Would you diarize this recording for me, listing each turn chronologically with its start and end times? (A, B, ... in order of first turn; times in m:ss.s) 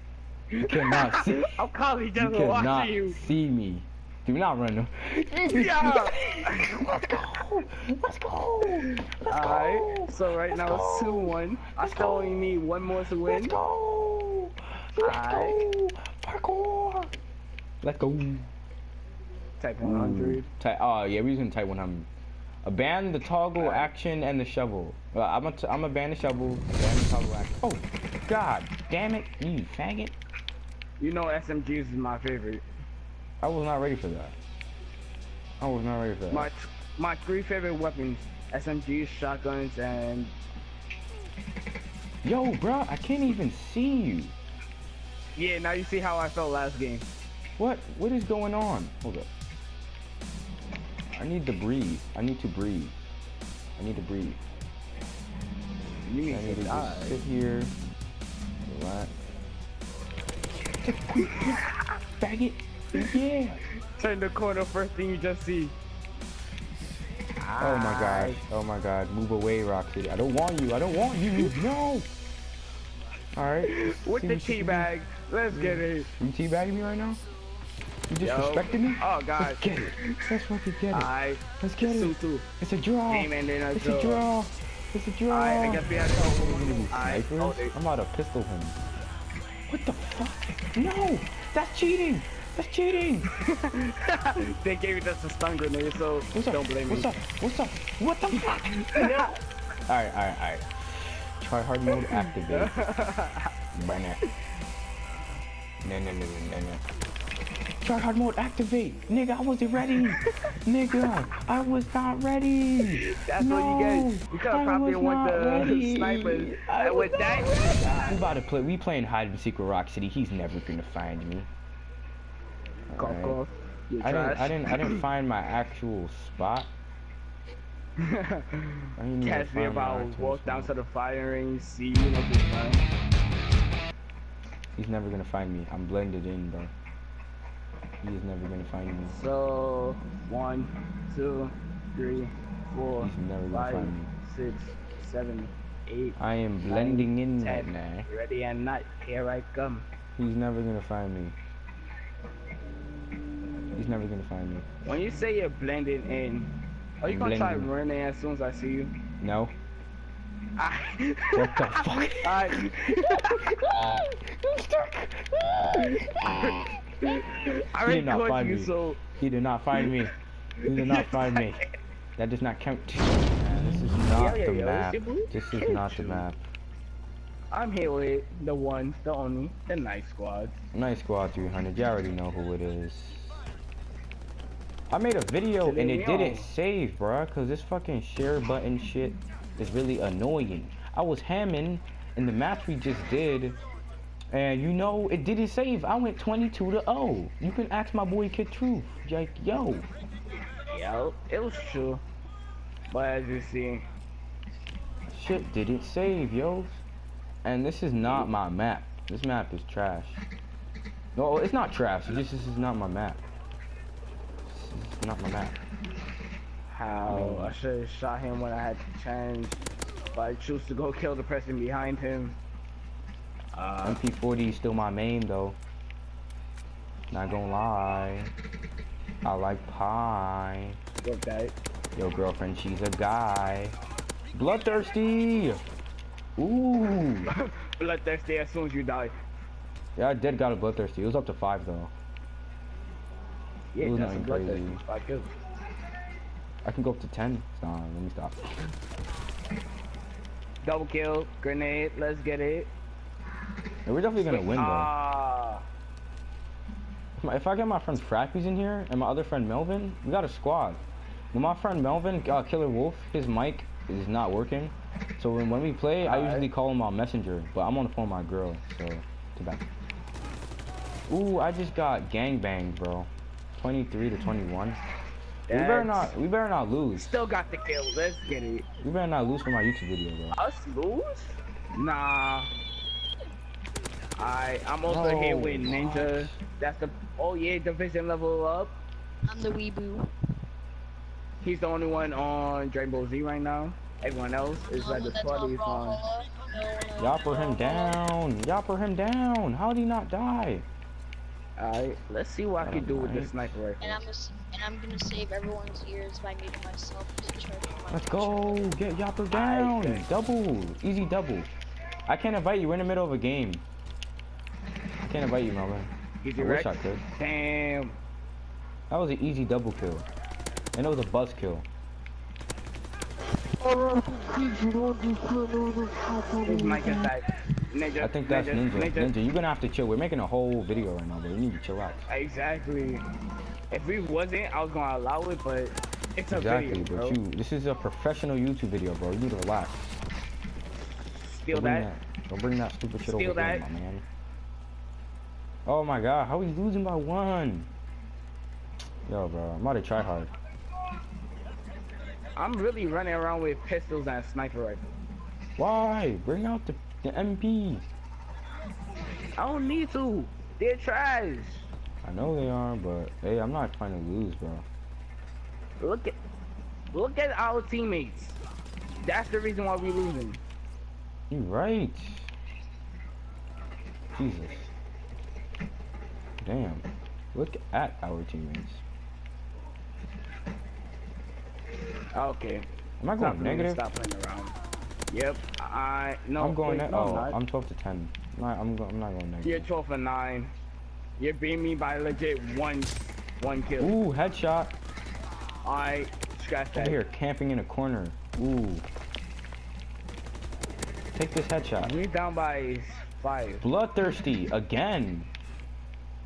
0:00.5-0:03.2 A
0:00.6-0:01.6 B
0:02.2-0:12.6 B
0:05.4-0:07.3 A
0:08.7-0:13.6 A
0:13.2-0:17.1 B
0:15.0-0:15.7 A
0:17.8-0:18.5 B
0:19.6-0:20.5 A
0:19.8-0:22.1 B
0:22.6-0:30.2 B
0:23.6-0:23.9 A
0:31.0-0:32.7 A
0:33.4-0:34.4 B
0:35.6-0:36.5 B
0:36.3-0:40.4 A
0:42.2-0:44.4 B
0:45.4-0:47.1 A
0:47.6-0:49.3 B
0:51.1-0:53.0 B
0:53.8-0:54.4 B
0:56.0-0:57.2 A
0:56.3-0:57.7 B
0:58.6-0:59.1 B
1:00.8-1:01.6 B
1:01.3-1:01.8 A
1:02.2-1:03.6 B
1:03.8-1:05.8 A
1:07.4-1:08.4 A
1:07.6-1:12.1 B
1:11.4-1:11.6 A
1:13.3-1:14.9 B
1:13.6-1:16.1 A
1:15.5-1:17.2 B
1:18.1-1:28.8 B
1:18.2-1:20.2 A
1:20.9-1:22.5 A
1:23.1-1:24.3 A
1:25.3-1:27.8 A
1:29.7-1:33.3 B
1:33.3-1:37.1 A
1:36.3-1:39.3 B
1:38.3-1:39.3 A
1:39.9-1:42.8 B
1:41.9-1:43.5 A
1:43.7-1:44.2 B
1:45.8-1:46.8 B
1:47.8-2:01.5 B
1:53.0-1:58.4 A
2:02.9-2:03.4 B
2:03.0-2:05.0 A
2:04.0-2:06.7 B
2:08.0-2:12.9 A
2:09.0-2:10.7 B
2:14.7-2:16.7 B
2:18.0-2:19.2 B
2:19.1-2:29.9 A
2:23.0-2:24.1 B
2:26.2-2:28.1 B
2:30.2-2:31.4 B
2:33.7-2:34.7 B
2:34.8-2:38.9 A
2:37.0-2:37.7 B
2:39.2-2:39.5 B
2:40.6-2:44.0 A
2:41.4-2:46.5 B
2:45.7-2:49.0 A
2:47.8-2:51.6 B
2:49.8-2:50.1 A
2:50.6-2:51.6 A
2:52.2-2:56.4 B
2:54.1-2:56.2 A
2:57.5-3:00.6 A
3:00.7-3:03.4 B
3:04.9-3:13.6 B
3:05.6-3:06.5 A
3:14.3-3:19.9 B
3:20.7-3:22.0 A
3:22.9-3:23.9 A
3:25.1-3:26.8 B
3:27.4-3:30.2 B
3:31.2-3:33.2 B
3:34.5-3:35.6 B
3:36.7-3:42.4 A
3:37.0-3:37.5 B
3:43.5-3:44.0 A
3:43.8-3:45.6 B
3:47.1-3:48.3 B
3:49.2-3:50.8 B
3:51.0-3:51.6 A
3:52.0-3:53.8 B
3:54.3-3:55.6 B
3:56.4-3:57.3 B
3:57.3-3:59.2 A
4:00.0-4:01.9 B
4:03.7-4:05.3 A
4:03.8-4:04.8 B
4:06.6-4:08.7 B
4:10.6-4:12.7 A
4:13.9-4:14.9 B
4:14.2-4:15.6 A
4:17.2-4:20.8 B
4:21.3-4:29.6 B
4:26.0-4:26.5 A
4:31.1-4:34.8 B
4:35.5-4:36.1 A
4:35.5-4:37.2 B
4:37.0-4:38.7 A
4:38.8-4:40.4 B
4:40.3-4:42.5 A
4:44.2-4:48.8 A
4:44.8-4:46.4 B
4:49.3-4:50.1 C
4:51.4-4:56.0 A
4:54.7-4:58.0 C
4:57.0-5:00.7 B
5:01.6-5:04.0 A
5:02.6-5:03.5 B
5:03.8-5:08.7 C
5:07.9-5:11.5 B
5:09.3-5:10.1 A
5:12.1-5:13.6 B
5:15.0-5:17.0 B
5:16.2-5:18.0 A
5:18.9-5:20.1 B
5:20.8-5:21.7 B
5:23.6-5:27.1 C
5:26.4-5:29.1 A
5:28.0-5:32.1 B
5:32.1-5:33.0 A
5:33.7-5:37.2 A
5:36.3-5:40.0 B
5:41.2-5:41.9 A
5:41.5-5:44.1 B
5:43.0-5:43.7 A
5:45.7-5:47.7 B
5:49.1-5:50.3 B
5:52.4-5:54.8 A
5:55.6-5:57.9 B
5:59.4-6:01.7 A
6:02.0-6:04.7 B
6:05.8-6:06.2 A
6:06.9-6:08.4 A
6:09.0-6:10.4 A
6:11.3-6:12.3 B
6:14.1-6:14.7 B
6:16.4-6:18.8 B
6:22.2-6:24.6 A
6:23.0-6:23.8 B
6:25.1-6:27.4 A
6:26.4-6:29.7 B
6:29.4-6:30.5 A
6:31.2-6:34.0 A
6:33.8-6:34.8 B
6:35.6-6:37.0 A
6:36.7-6:38.9 B
6:41.2-6:42.0 B
6:41.8-6:43.6 A
6:43.6-6:45.3 B